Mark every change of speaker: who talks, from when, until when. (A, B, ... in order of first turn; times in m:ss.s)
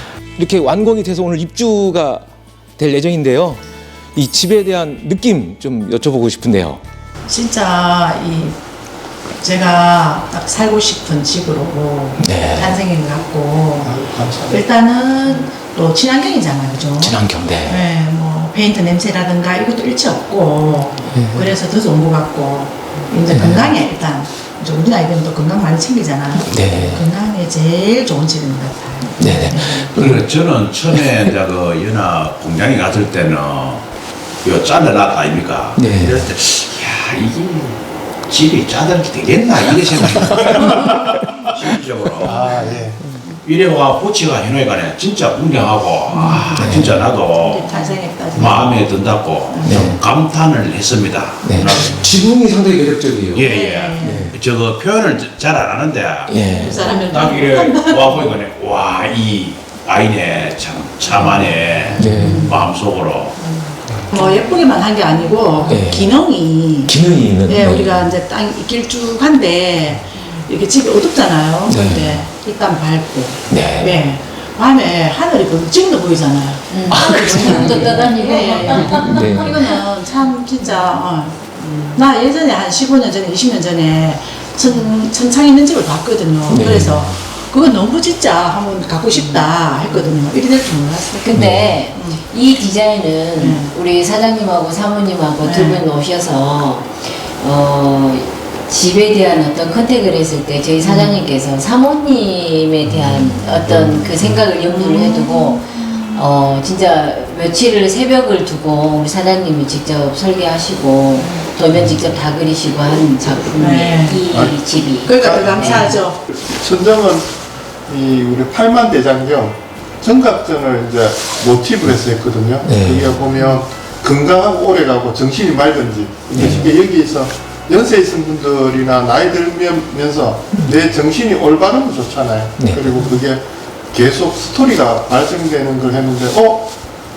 0:00.4-0:02.2 A
0:02.8-0:03.6 A
0:04.1-0:06.8 A
0:07.3-0:08.6 B
0:09.4-0:13.9 B
0:12.2-0:12.8 A
0:13.8-0:14.7 C
0:14.5-0:29.9 B
0:17.0-0:17.8 A
0:21.1-0:21.5 A
0:26.5-0:27.0 A
0:29.2-0:30.2 A
0:29.9-0:33.8 D
0:34.4-0:42.5 D
0:35.8-0:36.3 A
0:40.1-0:40.5 A
0:40.6-0:40.9 C
0:42.2-0:43.0 C
0:43.4-0:47.8 D
0:46.1-0:49.9 B
0:46.6-0:47.0 A
0:48.3-0:52.1 D
0:49.6-0:50.0 A
0:51.4-0:53.4 A
0:53.3-0:56.4 D
0:53.4-0:54.3 B
0:54.0-0:54.3 A
0:56.3-0:56.9 A
0:56.4-0:58.4 B
0:56.9-1:03.3 D
1:01.2-1:01.4 A
1:01.9-1:02.2 C
1:02.0-1:02.6 A
1:02.1-1:02.6 B
1:03.4-1:32.2 B
1:05.7-1:06.2 A
1:06.9-1:08.0 A
1:11.7-1:12.2 A
1:13.5-1:14.0 A
1:16.7-1:19.6 E
1:16.9-1:17.8 A
1:18.9-1:19.6 A
1:20.6-1:21.0 E
1:21.5-1:22.0 E
1:26.5-1:27.2 A
1:29.2-1:29.5 E
1:31.1-1:55.8 E
1:31.3-1:31.7 A
1:33.3-1:33.7 B
1:35.4-1:35.8 B
1:40.8-1:41.2 B
1:42.8-1:44.4 C
1:44.7-1:45.6 B
1:51.7-1:52.0 C
1:53.6-1:54.2 B
1:54.3-1:57.3 C
1:55.0-1:56.2 B
1:57.9-2:16.7 C
2:02.6-2:03.2 A
2:06.3-2:06.7 A
2:12.6-2:13.0 A